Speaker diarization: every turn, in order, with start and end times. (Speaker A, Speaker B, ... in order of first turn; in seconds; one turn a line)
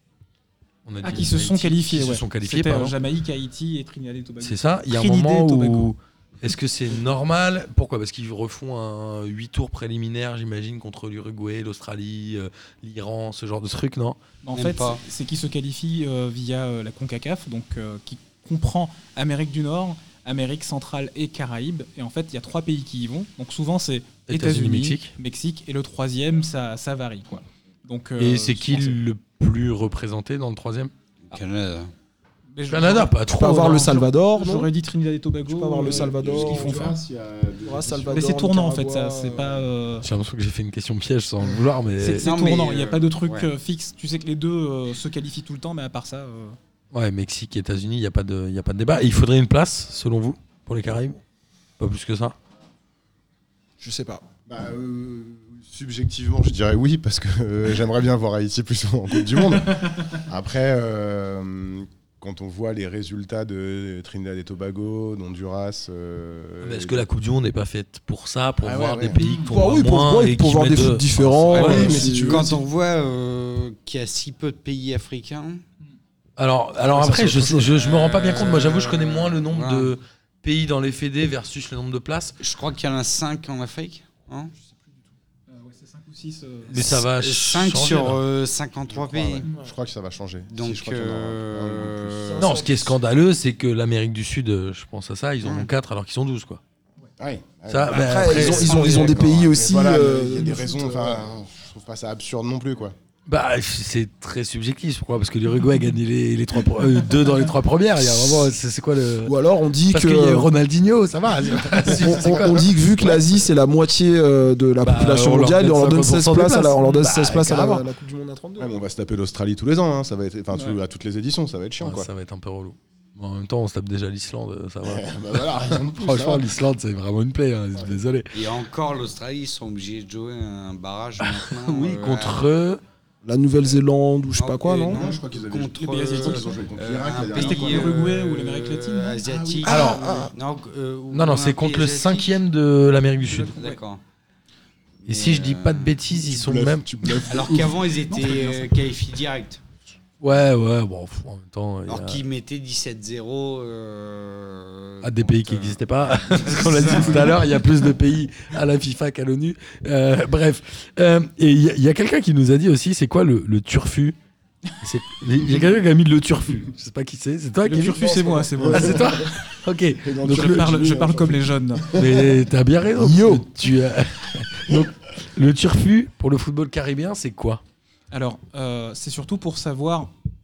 Speaker A: 0.8-3.0
Speaker B: 1.0-5.9
Speaker A: 4.4-14.2
Speaker B: 14.4-29.0
Speaker C: 14.5-15.0
Speaker A: 24.3-25.1
Speaker A: 28.2-30.9
Speaker C: 31.3-31.9
Speaker B: 32.5-37.0
Speaker A: 32.7-33.9
Speaker D: 33.3-34.7
Speaker D: 35.5-36.9
Speaker E: 35.8-38.3
Speaker D: 37.6-39.6
Speaker B: 38.1-40.1
Speaker A: 40.0-42.3
Speaker B: 42.0-46.6
Speaker C: 42.1-43.5
Speaker A: 46.9-51.2
Speaker A: 51.8-52.4
Speaker D: 53.8-54.2
Speaker E: 54.5-67.1
Speaker A: 66.6-72.0
Speaker E: 68.6-69.2
Speaker D: 69.3-72.6
Speaker C: 71.5-75.6
Speaker E: 71.6-72.6
Speaker A: 76.4-82.4
Speaker C: 77.0-80.0
Speaker C: 82.4-84.5
Speaker B: 85.5-86.8
Speaker A: 86.7-88.2
Speaker C: 86.8-89.5
Speaker E: 88.9-92.8
Speaker C: 90.5-92.5
Speaker D: 92.3-93.0
Speaker A: 92.4-96.6
Speaker C: 95.4-95.7
Speaker E: 97.2-103.0
Speaker A: 97.7-99.3
Speaker D: 97.9-101.2
Speaker A: 103.3-109.4
Speaker D: 109.2-110.5
Speaker A: 109.9-112.7
Speaker E: 111.4-113.2
Speaker D: 111.9-118.7
Speaker A: 114.8-117.8
Speaker E: 118.6-122.1
Speaker B: 120.5-120.8
Speaker A: 121.8-128.5
Speaker E: 124.8-126.5
Speaker C: 128.3-132.5
Speaker A: 131.2-132.8
Speaker D: 133.2-135.1
Speaker C: 134.3-142.4
Speaker E: 134.9-138.0
Speaker B: 135.8-136.5
Speaker B: 137.3-139.2
Speaker E: 139.3-139.9
Speaker D: 139.6-140.3
Speaker A: 139.7-140.1
Speaker A: 141.1-143.6
Speaker C: 143.3-144.0
Speaker B: 143.4-143.8
Speaker C: 145.1-146.0
Speaker A: 145.1-146.9
Speaker E: 146.1-147.9
Speaker C: 147.3-149.6
Speaker B: 148.1-148.7
Speaker A: 150.2-152.2
Speaker C: 151.9-157.4
Speaker A: 155.0-164.2
Speaker E: 156.8-157.3
Speaker A: 164.8-170.8
Speaker B: 167.6-169.4
Speaker E: 167.9-172.4
Speaker B: 170.2-172.0
Speaker A: 171.9-177.6
Speaker D: 173.0-173.5
Speaker B: 178.1-180.1